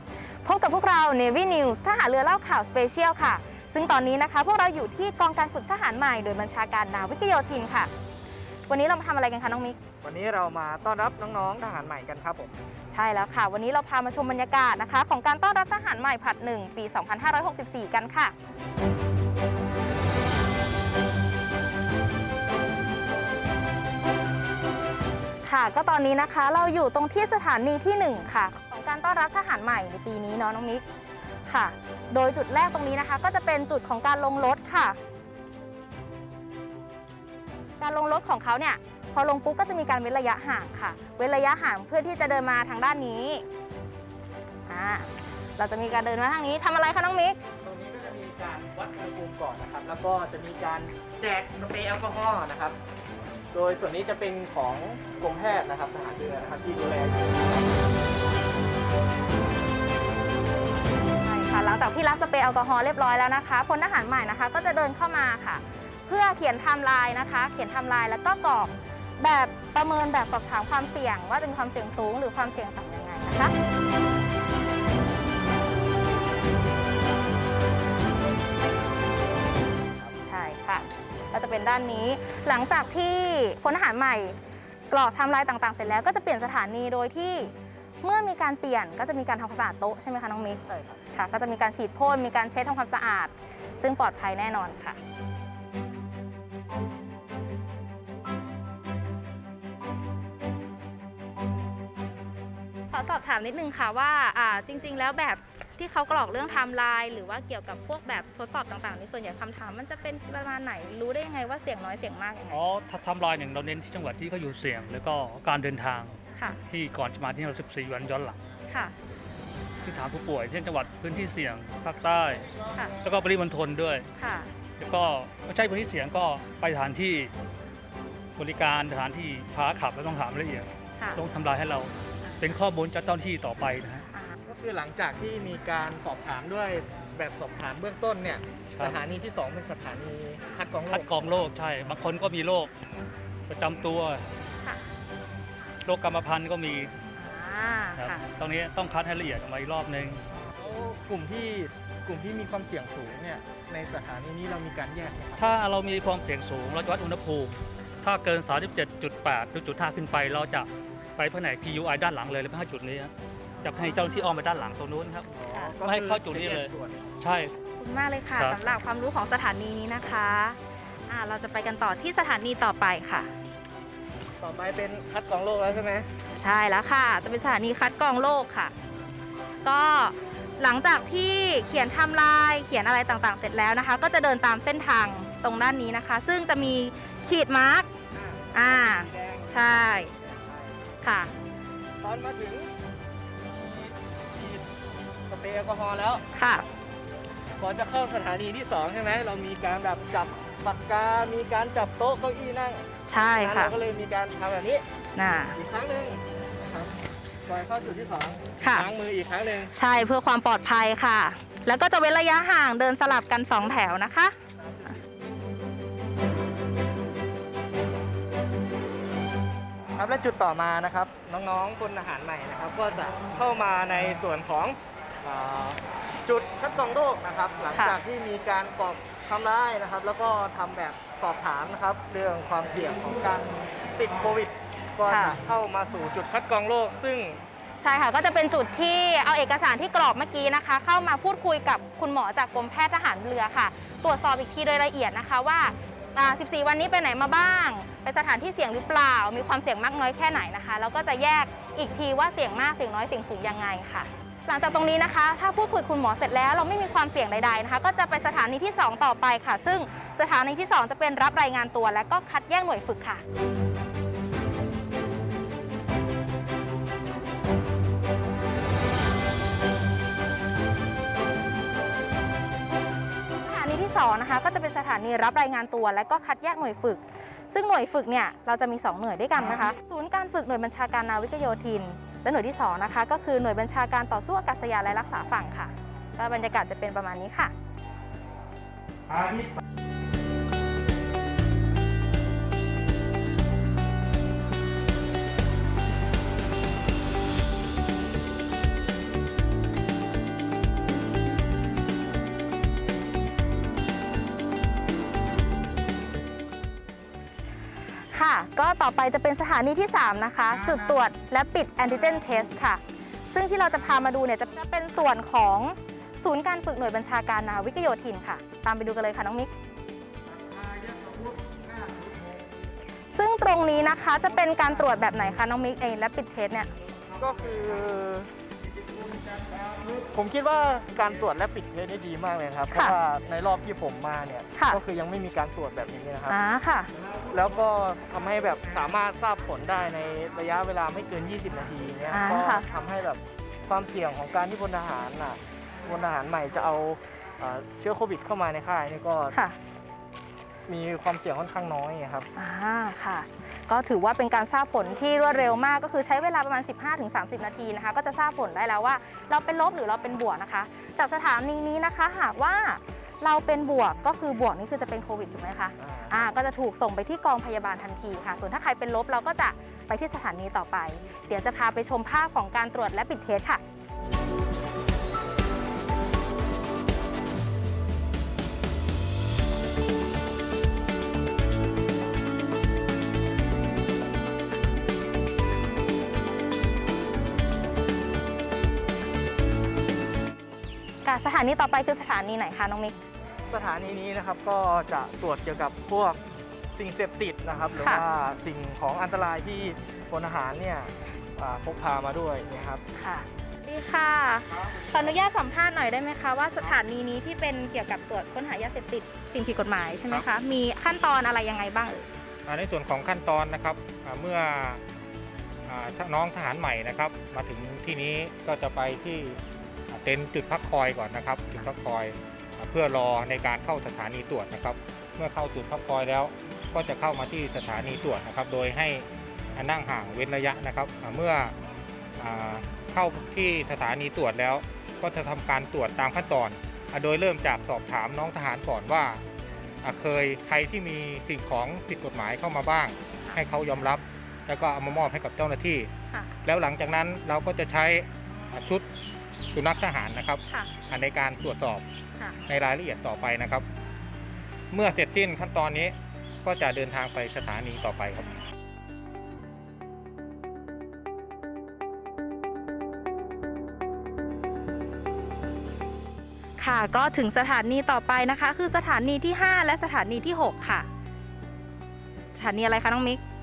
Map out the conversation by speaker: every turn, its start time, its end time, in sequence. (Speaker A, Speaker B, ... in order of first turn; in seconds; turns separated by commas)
Speaker A: 0.4-7.9, Speaker A: 8.7-9.8, Speaker B: 10.0-12.5, Speaker A: 12.9-18.3, Speaker A: 25.4-30.8, Speaker A: 31.4-35.0, Speaker A: 37.8-43.4, Speaker A: 44.7-47.4, Speaker B: 47.6-52.8, Speaker B: 53.5-57.5, Speaker A: 61.2-73.5, Speaker A: 80.1-84.4, Speaker A: 84.9-95.0, Speaker B: 90.6-91.0, Speaker A: 102.9-112.6, Speaker C: 112.5-118.4, Speaker A: 118.7-118.9, Speaker C: 119.8-124.1, Speaker A: 124.2-124.5, Speaker C: 124.8-127.3, Speaker C: 128.4-134.0, Speaker B: 134.4-141.5, Speaker C: 140.9-142.7, Speaker C: 143.5-144.2, Speaker C: 145.8-146.9, Speaker A: 147.1-148.2, Speaker C: 148.0-150.2, Speaker B: 150.5-155.6, Speaker C: 155.4-163.1, Speaker C: 163.6-165.3, Speaker B: 165.3-167.0, Speaker C: 165.8-167.5, Speaker A: 167.8-173.3, Speaker B: 174.4-176.1, Speaker A: 176.3-178.7, Speaker A: 179.6-187.9, Speaker B: 188.1-190.8, Speaker A: 188.5-190.1, Speaker A: 191.0-191.3, Speaker B: 192.0-192.7, Speaker B: 193.4-194.6, Speaker B: 195.3-196.2, Speaker A: 196.3-196.6, Speaker B: 197.6-204.8, Speaker A: 203.1-203.7, Speaker A: 205.2-205.6, Speaker B: 205.5-206.9, Speaker B: 207.4-209.7, Speaker A: 208.6-208.9, Speaker A: 209.7-214.3, Speaker B: 219.9-237.4, Speaker A: 235.1-235.4, Speaker A: 237.8-263.2, Speaker A: 273.4-287.5, Speaker D: 289.1-289.6, Speaker A: 308.1-319.5, Speaker D: 320.6-321.1, Speaker A: 323.1-326.7, Speaker B: 327.2-328.3, Speaker B: 329.6-336.4, Speaker A: 332.7-333.0, Speaker A: 334.5-334.8, Speaker A: 336.3-336.9, Speaker B: 337.3-349.4, Speaker A: 342.1-342.6, Speaker B: 350.7-352.3, Speaker A: 352.4-373.6, Speaker B: 365.8-366.3, Speaker A: 391.0-392.9, Speaker B: 393.5-396.2, Speaker B: 396.7-402.8, Speaker A: 402.9-412.1, Speaker D: 412.4-414.8, Speaker D: 415.7-419.4, Speaker D: 419.9-431.5, Speaker D: 432.2-439.2, Speaker D: 439.8-445.9, Speaker D: 446.4-448.8, Speaker D: 449.5-451.8, Speaker D: 452.5-453.6, Speaker D: 454.7-458.3, Speaker A: 466.6-470.9, Speaker A: 472.3-473.2